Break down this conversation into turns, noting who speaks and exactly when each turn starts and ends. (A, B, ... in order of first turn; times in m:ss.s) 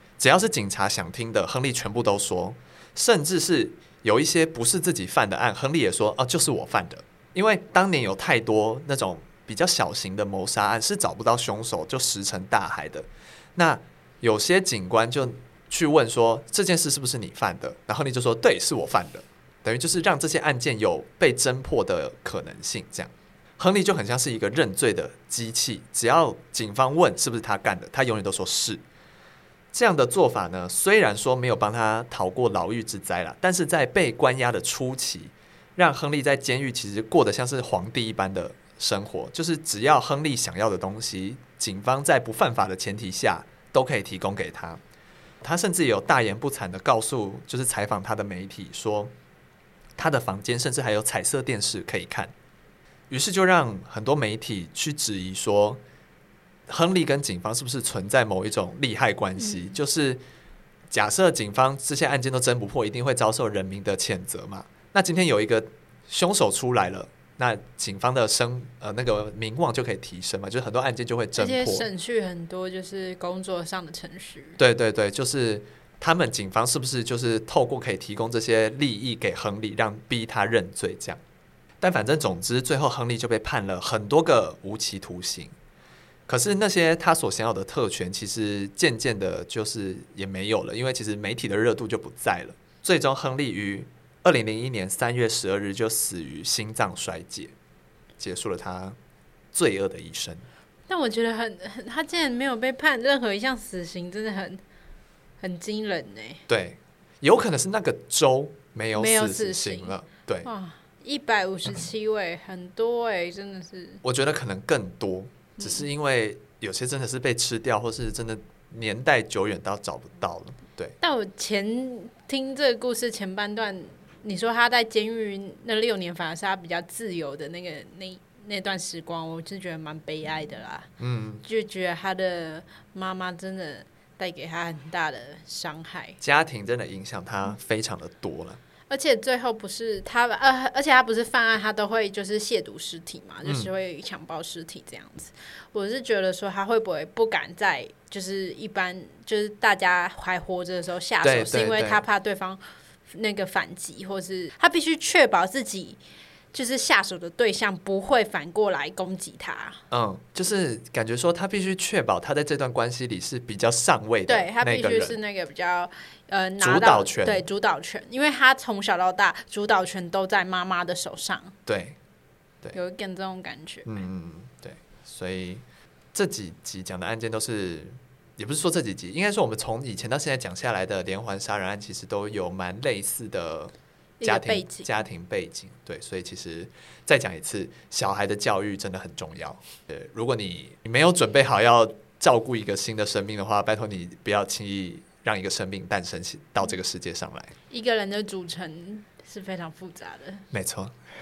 0:00.2-0:28.8 A
0:29.7-0:44.8 A
0:45.4-0:49.1 A
0:50.0-0:52.3 A
0:53.1-0:55.8 A
0:56.7-1:00.2 A
1:00.9-1:11.9 A
1:11.4-1:14.6 B
1:14.6-1:21.2 A
1:21.8-1:25.6 A
1:26.3-1:37.5 A
1:38.2-1:39.0 A
1:39.5-1:40.4 A
1:40.9-1:44.6 B
1:45.4-1:46.4 B
1:46.5-1:50.5 A
1:48.9-1:54.0 B
1:54.0-2:01.0 A
2:01.0-2:10.9 B
2:11.0-2:11.4 A
2:11.4-2:16.2 B
2:16.2-2:18.6 A
2:18.9-2:32.6 B
2:23.4-2:23.7 A
2:31.2-2:32.0 A
2:33.1-2:36.0 B
2:36.5-2:39.8 B
2:39.9-2:45.2 A
2:44.3-2:51.5 B
2:46.6-2:47.4 A
2:51.6-2:52.0 A
2:52.7-2:53.9 B
2:53.8-3:17.5 A
3:04.2-3:04.9 B
3:17.7-3:20.4 B
3:20.5-3:20.9 A